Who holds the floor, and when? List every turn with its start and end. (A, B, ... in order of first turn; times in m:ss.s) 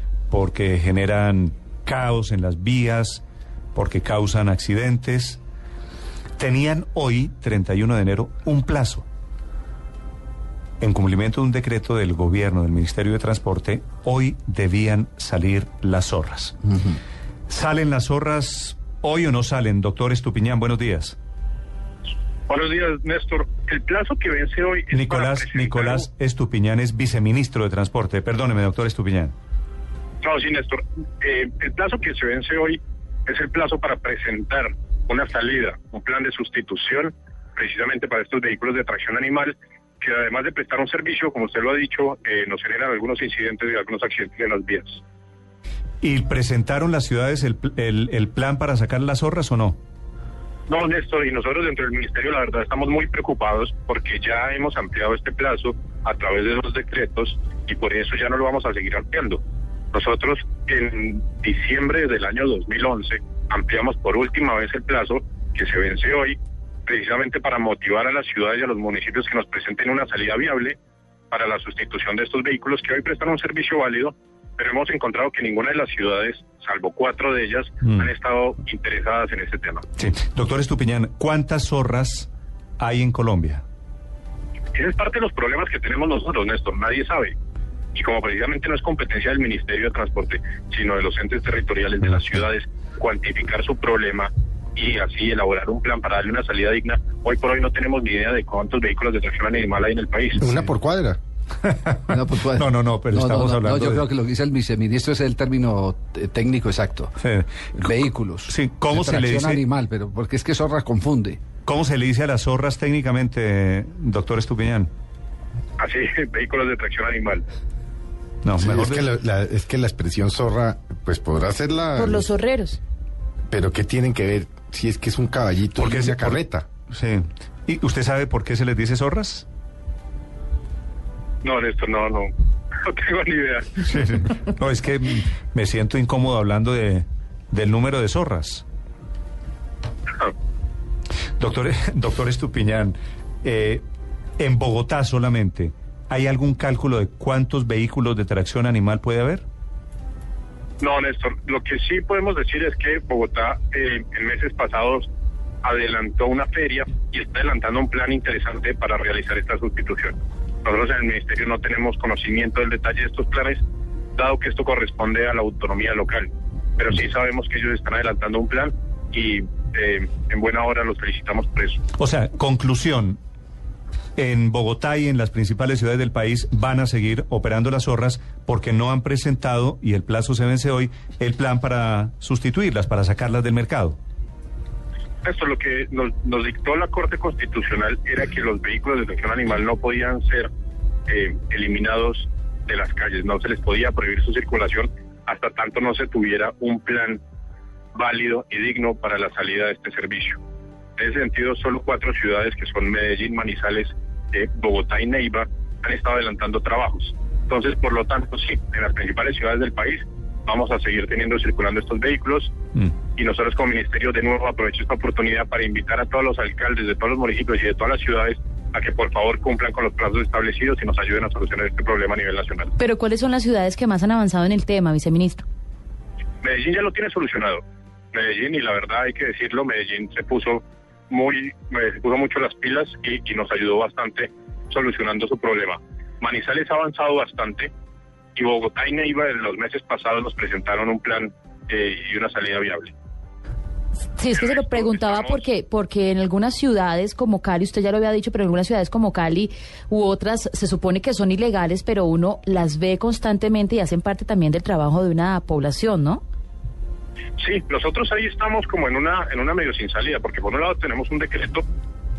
0:00.3-0:03.2 A
0:03.8-0:05.4 A
0:06.4-0:09.1 A
0:10.8-0:16.6 A
0:17.5-0:21.2 A
0:22.5-0:26.1 B
0:24.9-0:29.3 A
0:30.2-0:45.0 B
0:46.0-0:49.8 A
0:50.7-0:59.4 B
0:59.9-1:10.8 B
1:11.3-1:19.8 B
1:20.0-1:22.3 A
1:22.8-1:23.6 A
1:24.7-1:27.4 B
1:27.9-1:40.4 B
1:40.4-1:41.2 C
1:42.1-1:47.2 D
1:42.1-1:44.0 A
1:47.7-1:51.4 D
1:48.5-1:49.6 A
1:51.6-1:54.9 A
1:55.8-1:57.4 B
1:58.4-1:59.0 A
1:58.6-2:02.3 C
2:02.0-2:02.8 E
2:03.5-2:06.7 C
2:05.8-2:09.5 A
2:11.4-2:12.3 B
2:12.8-2:13.8 B
2:13.8-2:18.6 A
2:21.4-2:23.8 A
2:24.4-2:29.4 A
2:30.8-2:35.1 B
2:35.6-2:43.6 B
2:44.2-2:51.8 B
2:52.0-2:53.2 A
2:54.2-3:04.0 A
3:05.2-3:10.5 B
3:11.1-3:17.2 B
3:17.9-3:20.4 B
3:21.0-3:32.6 B
3:33.2-3:42.7 B
3:42.8-3:45.4 E
3:46.4-3:57.7 B
3:58.4-4:02.9 B
4:04.2-4:16.2 E
4:04.3-4:05.4 B
4:17.4-4:21.6 B